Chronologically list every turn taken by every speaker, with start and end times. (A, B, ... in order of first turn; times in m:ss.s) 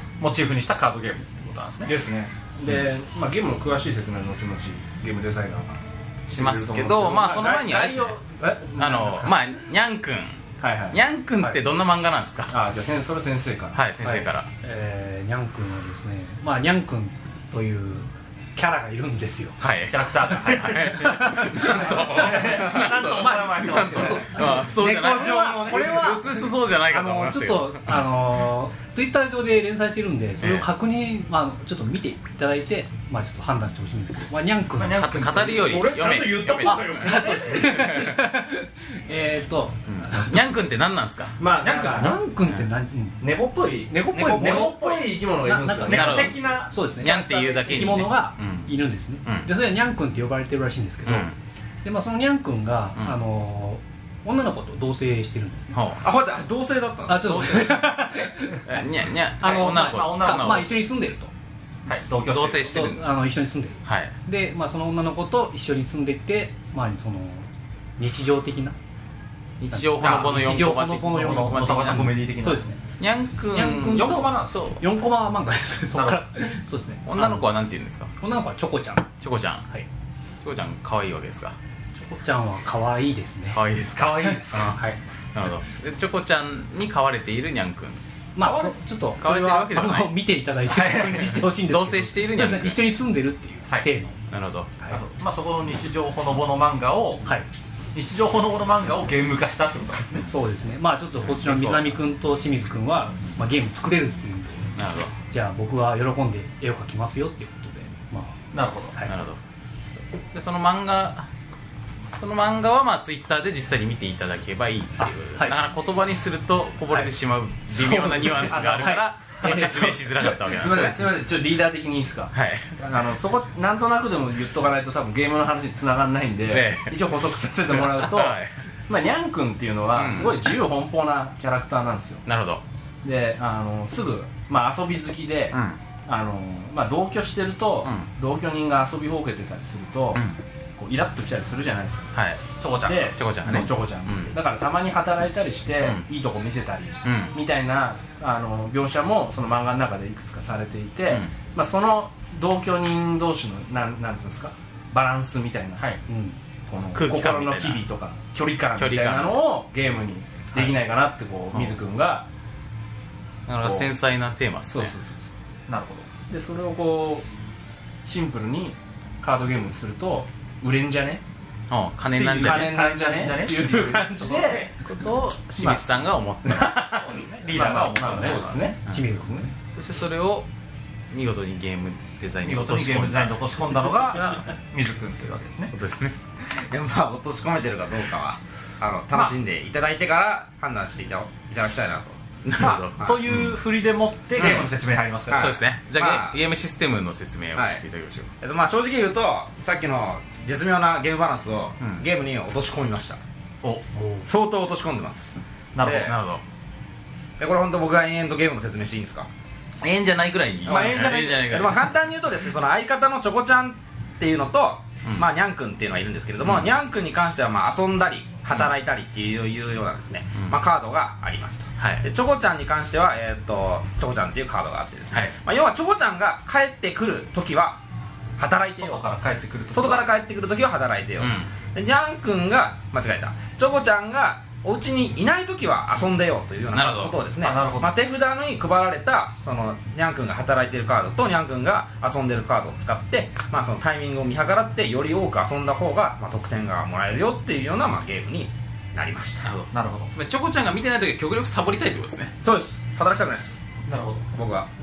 0:00.2-0:01.9 A
0:01.8-0:09.4 B
0:06.3-0:08.2 C
0:08.8-0:12.5 C
0:10.6-0:11.0 B
0:12.5-0:13.8 B
0:13.7-0:14.5 C
0:14.0-0:19.6 D
0:19.6-0:27.9 C
0:19.9-0:24.4 A
0:21.0-0:22.7 D
0:23.7-0:24.5 D
0:24.0-0:26.1 E
0:25.2-0:25.8 A
0:25.2-0:35.1 D
0:30.4-0:30.7 C
0:34.7-0:37.0 A
0:35.0-0:38.2 C
0:35.7-0:37.9 B
0:36.6-0:40.4 D
0:39.9-0:41.4 C
0:41.4-0:42.2 B
0:41.6-0:43.2 D
0:43.2-0:46.3 B
0:43.9-0:51.3 D
0:44.2-0:44.7 E
0:45.9-0:46.8 A
0:45.9-0:46.4 C
0:47.0-0:48.7 C
0:51.0-0:51.4 C
0:51.8-0:55.8 D
0:55.7-0:56.1 C
0:56.0-0:57.8 E
0:57.1-0:58.8 D
0:57.3-0:58.1 C
0:58.7-1:00.7 C
0:59.4-1:01.3 D
0:59.7-1:00.7 A
1:01.9-1:02.7 A
1:02.2-1:03.1 C
1:02.6-1:08.8 D
1:03.8-1:04.1 C
1:09.6-1:12.2 C
1:09.7-1:12.8 D
1:10.0-1:10.4 A
1:11.1-1:12.7 A
1:13.0-1:14.8 C
1:13.5-1:17.4 D
1:13.8-1:14.7 A
1:15.9-1:16.2 A
1:17.1-1:18.1 C
1:18.2-1:19.1 D
1:19.2-1:19.6 C
1:20.4-1:21.6 C
1:22.0-1:25.0 D
1:23.5-1:24.8 C
1:23.9-1:24.8 A
1:25.3-1:28.0 C
1:28.4-1:34.2 D
1:28.4-1:28.7 A
1:29.2-1:30.2 C
1:30.7-1:31.4 A
1:30.8-1:32.8 C
1:34.3-1:34.8 C
1:34.9-1:37.3 A
1:37.9-1:40.3 A
1:40.3-1:44.8 D
1:41.3-1:42.0 C
1:44.8-1:45.1 C
1:45.3-1:48.4 D
1:48.5-1:49.0 A
1:49.1-1:49.4 C
1:50.3-1:51.3 C
1:52.2-2:01.1 C
1:55.0-1:55.6 D
1:57.7-2:00.2 D
1:58.6-2:12.2 B
2:02.3-2:02.7 C
2:06.5-2:07.1 C
2:07.7-2:08.5 C
2:09.9-2:10.4 C
2:12.2-2:12.6 C
2:13.0-2:20.2 B
2:15.5-2:15.8 C
2:20.8-2:22.1 B
2:22.1-2:22.6 C
2:22.6-2:23.1 A
2:22.8-2:36.0 B
2:23.1-2:24.4 C
2:27.0-2:27.3 C
2:36.1-2:36.4 D
2:36.7-2:42.3 B
2:36.9-2:37.8 C
2:38.8-2:39.5 C
2:43.5-2:44.9 C
2:43.6-2:43.9 B
2:44.7-2:45.2 B
2:45.7-2:46.1 A
2:46.3-2:47.3 B
2:48.0-2:51.2 B
2:51.7-2:52.8 C
2:52.2-2:54.1 A
2:52.4-2:54.7 B
2:53.6-2:54.9 D
2:54.8-2:57.1 C
2:55.6-2:59.4 B
2:56.8-2:58.7 A
2:58.1-2:59.0 C
2:58.2-2:59.5 D
2:59.7-3:00.5 C
3:01.1-3:03.3 C
3:02.4-3:05.7 A
3:05.7-3:06.2 C
3:06.5-3:13.3 E
3:12.5-3:13.6 C
3:12.6-3:15.4 A
3:14.4-3:14.7 C
3:14.4-3:14.7 E
3:15.3-3:16.4 E
3:15.3-3:18.3 C
3:17.6-3:17.8 E
3:18.4-3:23.2 E
3:23.9-3:24.3 D
3:24.2-3:26.2 E
3:25.8-3:26.1 A
3:26.0-3:26.4 C
3:27.4-3:29.3 E
3:29.8-3:31.8 C
3:30.7-3:31.6 B
3:30.7-3:47.8 E
3:36.4-3:36.7 C
3:41.8-3:42.1 C
3:48.4-3:49.1 E
3:48.7-3:50.1 A
3:49.7-4:09.5 E
3:51.2-3:51.5 C
3:56.7-3:57.2 C
3:57.4-3:57.9 A
4:09.4-4:12.4 C
4:09.7-4:10.1 A
4:12.4-4:13.7 E
4:13.8-4:14.3 A
4:14.3-4:14.7 E